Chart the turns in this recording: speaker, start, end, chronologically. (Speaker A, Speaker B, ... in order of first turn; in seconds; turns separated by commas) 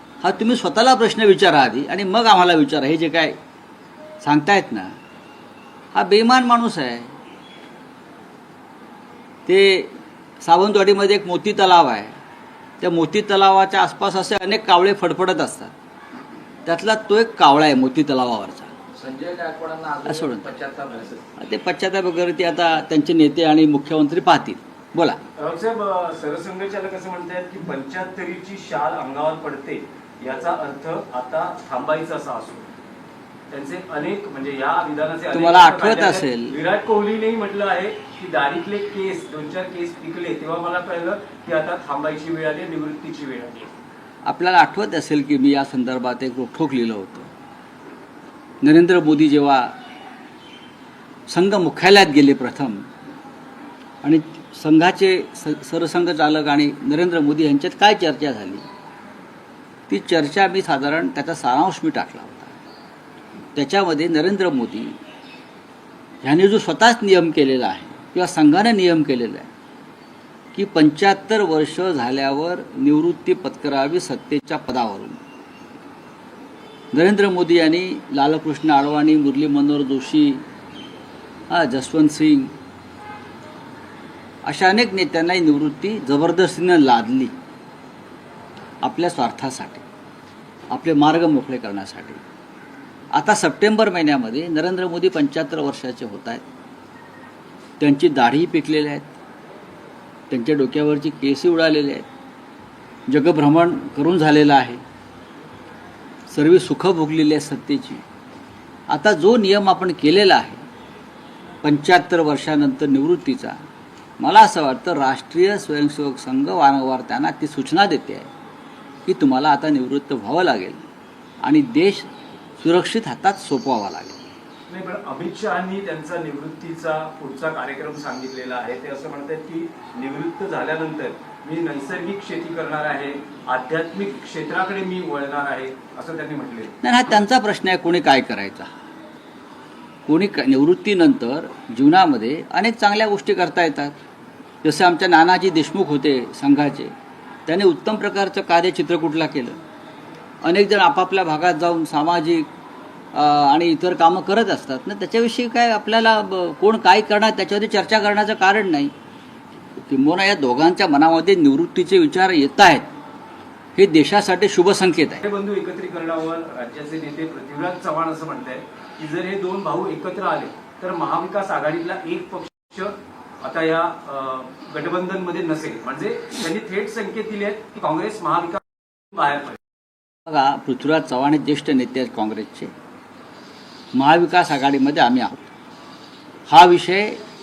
Speaker A: 0.2-3.4, Speaker A: 4.2-5.0, Speaker A: 5.9-7.2, Speaker A: 9.5-12.2, Speaker A: 12.8-15.7, Speaker A: 16.7-18.7, Speaker B: 18.9-21.3, Speaker A: 20.1-20.5, Speaker A: 21.4-25.2, Speaker C: 25.4-32.7, Speaker C: 33.5-43.7, Speaker A: 35.3-36.5, Speaker A: 44.2-47.3, Speaker A: 48.6-49.8, Speaker A: 51.3-52.9, Speaker A: 54.0-58.7, Speaker A: 59.9-62.6, Speaker A: 63.5-65.0, Speaker A: 66.2-69.5, Speaker A: 70.5-75.2, Speaker A: 76.9-80.4, Speaker A: 81.5-82.5, Speaker A: 84.5-87.3, Speaker A: 88.8-89.9, Speaker A: 90.7-92.2, Speaker A: 93.1-96.4, Speaker A: 97.8-99.1, Speaker A: 100.3-102.1, Speaker A: 103.1-104.8, Speaker A: 106.3-108.0, Speaker A: 108.9-110.6, Speaker A: 111.6-113.6, Speaker A: 114.2-118.3, Speaker A: 119.1-120.8, Speaker A: 121.4-122.1, Speaker A: 122.6-124.2, Speaker C: 124.7-136.7, Speaker A: 136.8-138.7, Speaker A: 140.1-144.0, Speaker A: 144.6-146.9, Speaker A: 147.5-149.6, Speaker A: 150.4-152.5, Speaker A: 153.1-158.9, Speaker A: 159.8-162.9, Speaker A: 163.8-165.2, Speaker C: 165.2-179.6, Speaker A: 180.3-182.7, Speaker A: 183.9-185.5, Speaker A: 186.5-187.2